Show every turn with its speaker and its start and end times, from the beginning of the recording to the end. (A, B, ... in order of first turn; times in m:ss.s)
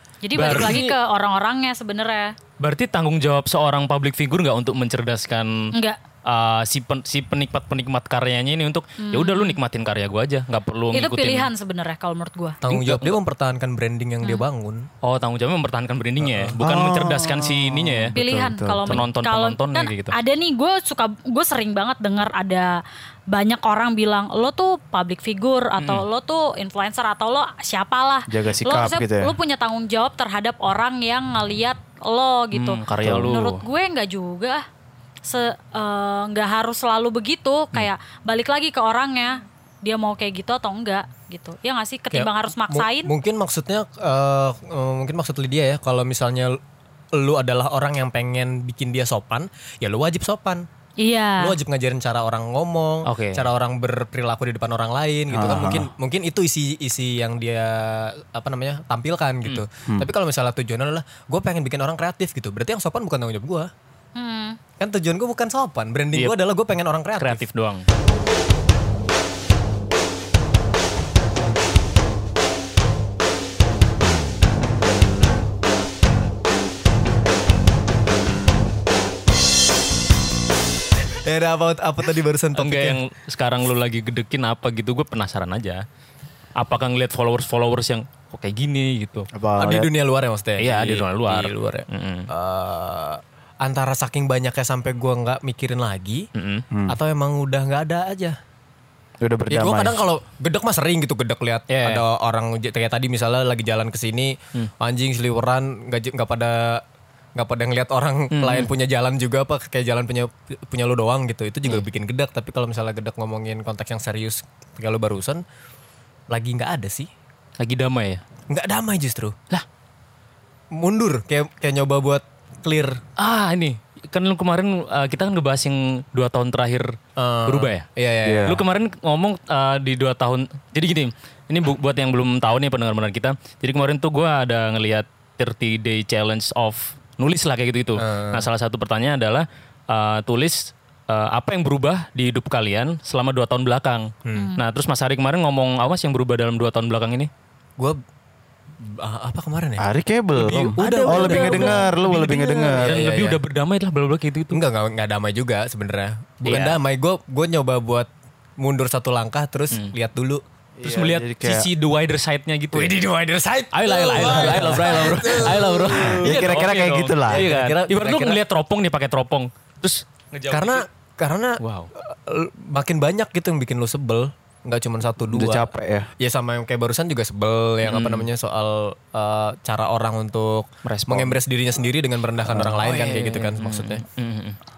0:00.2-0:02.4 A
0:00.4-0:00.9 B
0:00.5-0:00.8 C
0:02.6-0:05.7 B
0:05.7-0:06.0 A
0:06.2-0:11.5 B
0:09.0-0:09.6 A
0:10.9-0:12.6 A
0:12.6-0:14.9 C
0:12.7-0:13.2 B
0:15.0-0:18.2 B
0:16.2-0:16.6 C
0:16.6-0:19.0 D
0:18.1-0:34.6 A
0:18.9-0:20.2 B
0:25.8-0:26.0 B
0:28.3-0:29.3 D
0:32.5-0:33.6 B
0:35.2-0:43.1 A
0:42.1-0:46.6 C
0:47.1-0:50.7 C
0:51.0-0:51.6 A
0:51.4-1:03.7 C
0:53.1-0:53.5 B
0:55.3-0:55.9 D
1:04.2-1:04.6 A
1:04.8-1:07.4 C
1:07.2-1:07.9 B
1:21.2-1:23.0 C
1:22.6-1:25.8 B
1:26.6-1:29.3 B
1:29.3-1:29.9 D
1:29.6-1:36.3 C
1:30.6-1:32.3 B
1:36.4-1:36.6 B
1:36.7-1:37.0 D
1:36.9-1:38.4 C
1:39.2-1:40.0 D
1:39.5-1:46.8 C
1:41.7-1:42.0 B
1:47.4-1:55.4 C
1:48.3-1:48.7 B
1:56.3-1:57.1 C
1:57.6-1:58.2 B
1:58.5-1:59.4 C
2:00.7-2:03.0 C
2:03.2-2:07.0 B
2:07.2-2:08.6 C
2:07.5-2:07.9 B
2:08.2-2:08.6 D
2:08.4-2:27.3 B
2:18.0-2:18.5 C
2:24.2-2:24.5 C
2:24.4-2:24.6 A
2:28.8-2:29.9 C
2:29.8-2:33.0 D
2:30.4-2:33.4 C
2:30.8-2:34.6 B
2:34.5-2:40.4 C
2:36.4-2:36.8 B
2:40.8-2:41.7 D
2:40.8-2:43.0 B
2:42.7-2:46.7 C
2:43.7-2:50.9 B
2:44.4-2:45.0 D
2:45.9-2:47.5 D
2:47.3-2:48.4 C
2:50.5-2:55.7 C
2:51.6-2:51.9 B
2:55.3-2:56.1 D
2:56.2-3:04.0 C
2:57.8-2:58.3 B
3:00.8-3:01.4 B
3:02.5-3:04.6 B